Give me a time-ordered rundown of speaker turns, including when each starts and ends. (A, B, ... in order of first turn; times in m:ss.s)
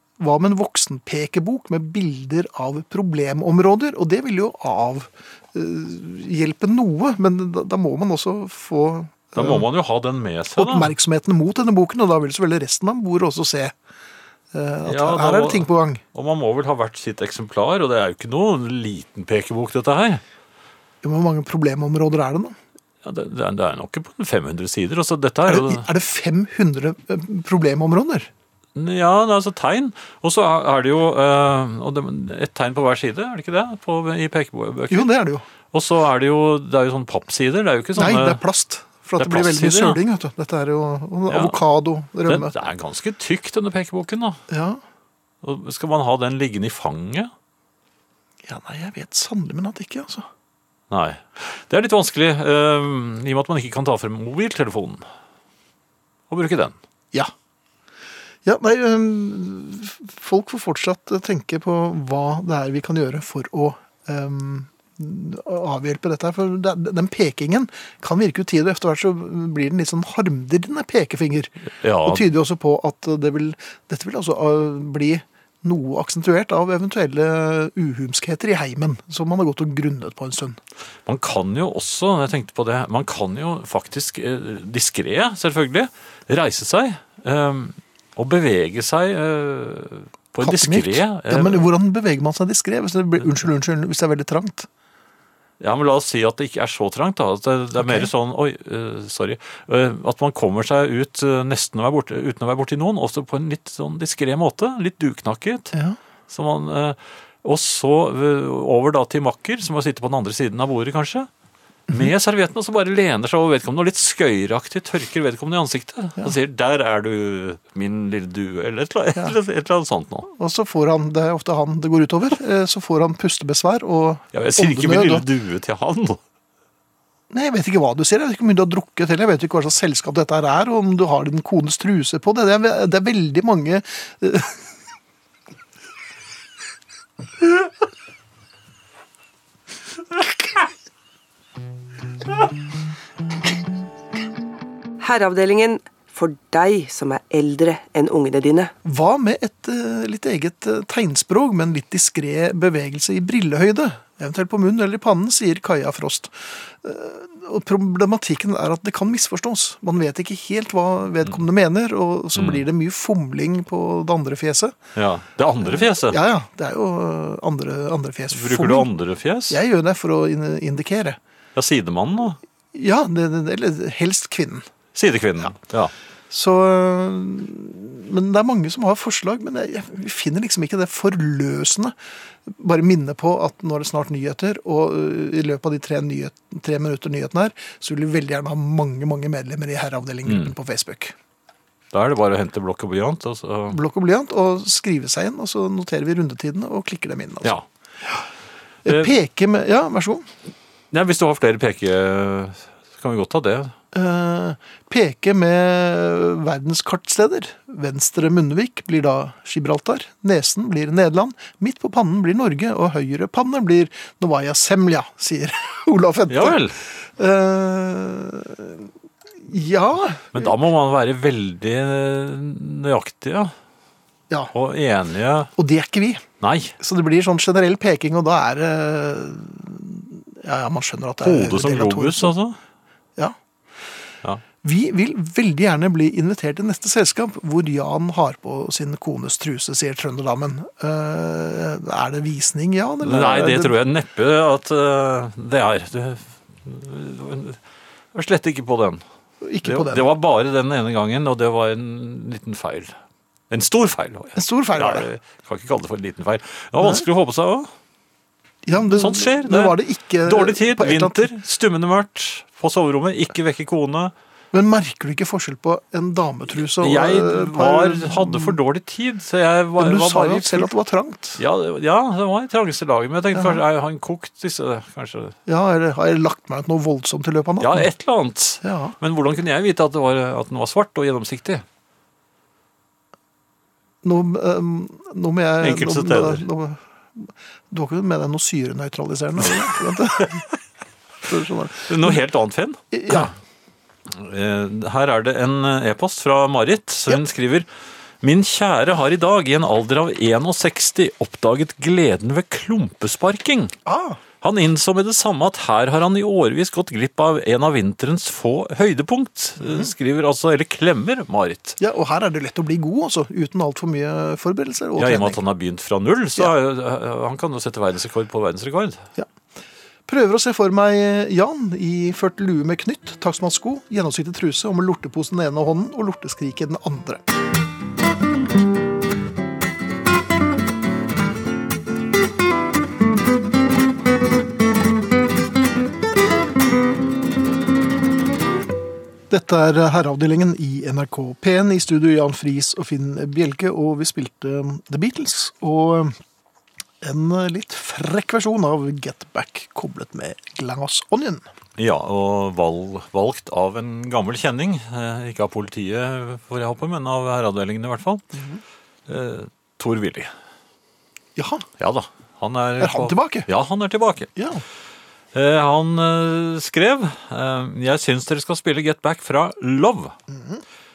0:00.2-0:09.7 A
0:09.4-0:10.9 B
0:10.6-0:13.8 A
0:14.5-0:16.0 A
0:14.9-0:20.2 B
0:21.0-0:22.6 A
0:23.0-0:25.9 B
0:25.5-0:28.3 A
0:28.8-0:35.1 B
0:34.9-0:35.5 A
0:35.7-0:38.4 B
0:38.0-0:42.5 A
0:39.2-0:40.0 B
0:41.3-0:41.6 B
0:42.3-0:44.4 B
0:44.5-0:44.8 A
0:45.4-0:47.3 B
0:48.4-0:50.3 A
0:50.9-0:55.0 B
0:56.3-0:56.8 B
0:58.4-1:11.5 A
1:11.8-1:12.3 B
1:12.0-1:20.6 A
1:21.1-1:31.7 B
1:30.4-1:34.7 A
1:35.6-1:45.7 B
1:37.8-1:38.1 A
1:46.3-1:51.3 B
1:51.9-2:00.3 B
2:00.3-2:05.3 A
2:04.3-2:06.2 B
2:07.3-2:14.6 A
2:25.0-2:28.7 C
2:28.8-2:44.8 A
2:42.4-2:42.6 B
2:45.0-2:46.2 B
2:45.6-2:48.9 A
2:48.3-2:49.6 B
2:49.5-2:51.2 A
2:51.6-2:52.4 B
2:52.7-2:54.7 A
2:55.0-2:55.9 B
2:56.3-3:02.0 A
3:02.5-3:11.2 A
3:10.2-3:10.5 B
3:11.9-3:13.8 B
3:13.7-3:18.2 A
3:18.8-3:20.3 A
3:20.9-3:23.8 B
3:23.9-3:40.5 A
3:36.3-3:36.8 B
3:40.3-3:43.5 B
3:44.5-3:45.5 B
3:45.6-3:46.2 A
3:46.4-3:46.8 B
3:46.8-3:52.3 A
3:51.2-3:52.6 B
3:54.6-4:03.8 A
4:03.0-4:07.6 B
4:08.1-4:09.0 B
4:09.4-4:10.0 A
4:09.6-4:13.0 B
4:13.5-4:17.7 B
4:14.4-4:15.1 A
4:16.8-4:17.1 A
4:18.6-4:21.3 A
4:18.8-4:24.1 B
4:24.5-4:28.6 A
4:26.8-4:30.7 B
4:29.8-4:31.4 A
4:31.4-4:35.4 B
4:33.3-4:33.6 A
4:35.5-4:37.9 A
4:37.6-4:41.6 B
4:38.6-4:39.0 A
4:44.0-4:50.4 A
4:45.6-4:46.4 B
4:49.5-4:50.4 B
4:51.2-4:52.2 A
4:51.9-4:53.3 B
4:52.9-4:53.3 A
4:54.1-4:57.7 B
4:58.2-5:03.8 B
5:03.9-5:04.2 A
5:04.4-5:11.8 B
5:09.6-5:09.9 A
5:11.8-5:15.4 A
5:15.0-5:19.0 B
5:20.1-5:27.2 A
5:39.3-5:46.2 A
5:47.0-5:51.5 A
5:51.8-5:58.2 B
5:58.3-5:58.6 A
5:59.1-6:00.3 B
6:01.4-6:01.7 A
6:01.8-6:04.3 B
6:02.8-6:03.5 A
6:04.4-6:04.6 A
6:05.3-6:10.2 B
6:10.3-6:10.6 A